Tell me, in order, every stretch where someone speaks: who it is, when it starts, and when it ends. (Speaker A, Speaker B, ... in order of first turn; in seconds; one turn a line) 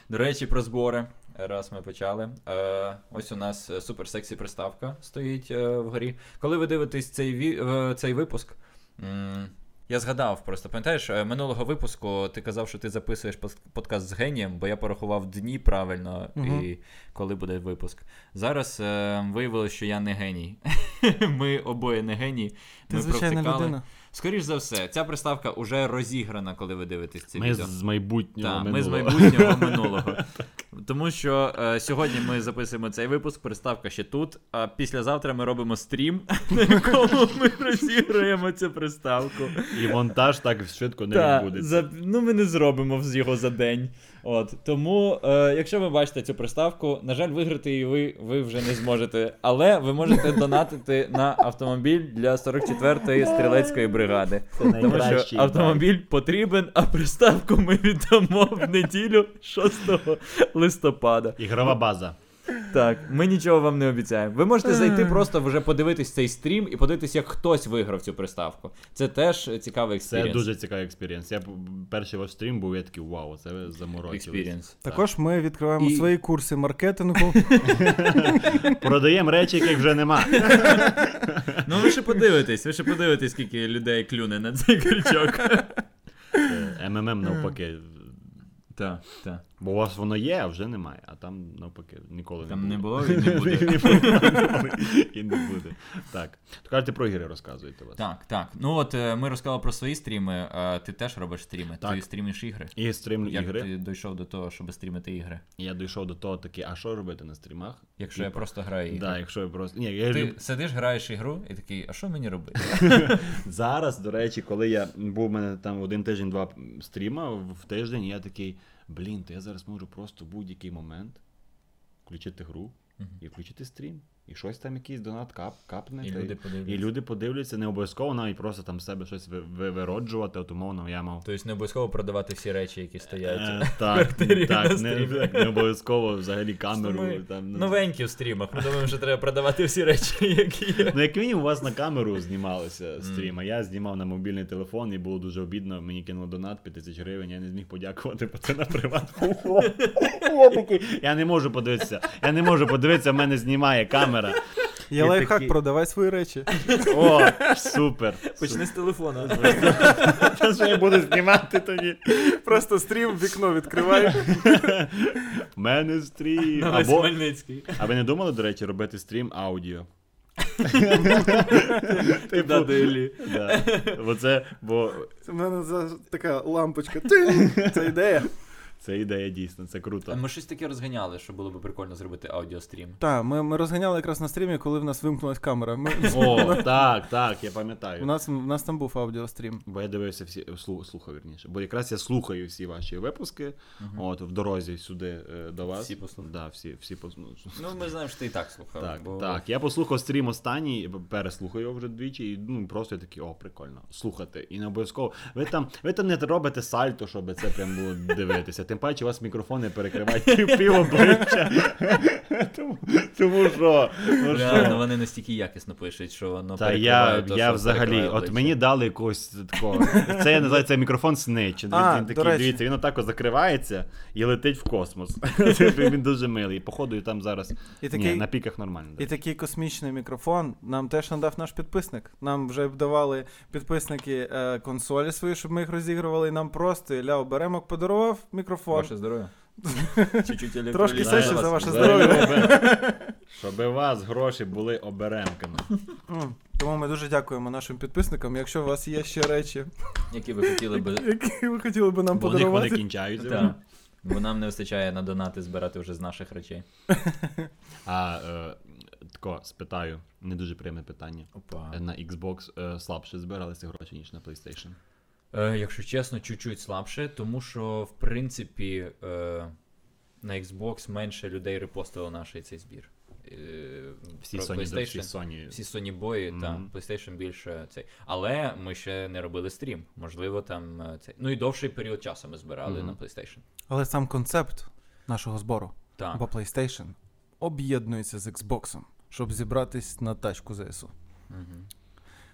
Speaker A: 0.1-27.7
Speaker B: 16.4-16.6
Speaker B: 22.9-23.8
Speaker C: 27.4-30.4
Speaker A: 28.4-40.0
Speaker C: 39.7-41.9
Speaker A: 41.1-61.4
Speaker C: 54.5-55.8
Speaker C: 61.4-62.1
Speaker A: 62.6-70.4
Speaker C: 70.0-75.0
Speaker A: 74.1-74.8
Speaker B: 74.8-78.8
Speaker A: 75.8-76.1
Speaker A: 77.2-77.8
Speaker C: 77.6-81.9
Speaker A: 80.3-81.0
Speaker A: 81.6-85.8
Speaker C: 86.4-88.2
Speaker A: 88.7-89.4
Speaker C: 89.6-98.0
Speaker A: 92.4-94.6
Speaker A: 98.0-102.7
Speaker C: 101.8-102.0
Speaker C: 102.7-103.7
Speaker A: 103.2-105.4
Speaker C: 105.6-110.4
Speaker A: 108.0-109.2
Speaker A: 110.1-113.4
Speaker C: 112.6-121.2
Speaker C: 122.0-131.2
Speaker A: 126.0-126.9
Speaker A: 131.2-135.7
Speaker C: 133.2-137.8
Speaker A: 136.8-141.0
Speaker C: 140.8-154.4
Speaker A: 149.6-150.0
Speaker B: 154.9-157.5
Speaker C: 154.9-155.5
Speaker A: 156.6-157.1
Speaker C: 156.8-158.7
Speaker A: 158.3-160.5
Speaker C: 159.2-162.4
Speaker B: 162.1-164.8
Speaker C: 163.9-169.9
Speaker A: 166.5-167.9
Speaker A: 170.5-174.0
Speaker C: 170.6-175.1
Speaker B: 175.2-178.3
Speaker C: 177.2-178.0
Speaker C: 178.8-180.2
Speaker A: 180.1-183.0
Speaker B: 183.0-186.8
Speaker C: 186.0-188.1
Speaker B: 188.0-189.6
Speaker C: 189.6-197.8
Speaker A: 193.8-194.0
Speaker A: 195.7-196.3
Speaker A: 197.6-199.4
Speaker C: 198.8-214.9
Speaker A: 210.1-211.4
Speaker A: 214.2-218.5
Speaker C: 216.6-229.1
Speaker B: 219.9-220.3
Speaker B: 221.7-222.6
Speaker B: 227.8-228.2
Speaker B: 229.0-238.9
Speaker A: 238.7-239.3
Speaker B: 239.6-243.1
Speaker A: 240.1-242.5
Speaker C: 240.9-245.7
Speaker B: 246.1-249.7
Speaker A: 250.1-251.1
Speaker B: 250.7-252.8
Speaker C: 252.1-253.6
Speaker A: 253.2-256.6
Speaker B: 256.9-257.3
Speaker C: 257.8-264.8
Speaker A: 261.3-261.8
Speaker A: 265.3-269.5
Speaker A: 270.2-283.4
Speaker C: 274.2-275.6
Speaker C: 276.3-276.7
Speaker C: 282.6-283.0
Speaker B: 283.7-290.9
Speaker A: 286.0-286.2
Speaker A: 291.3-291.7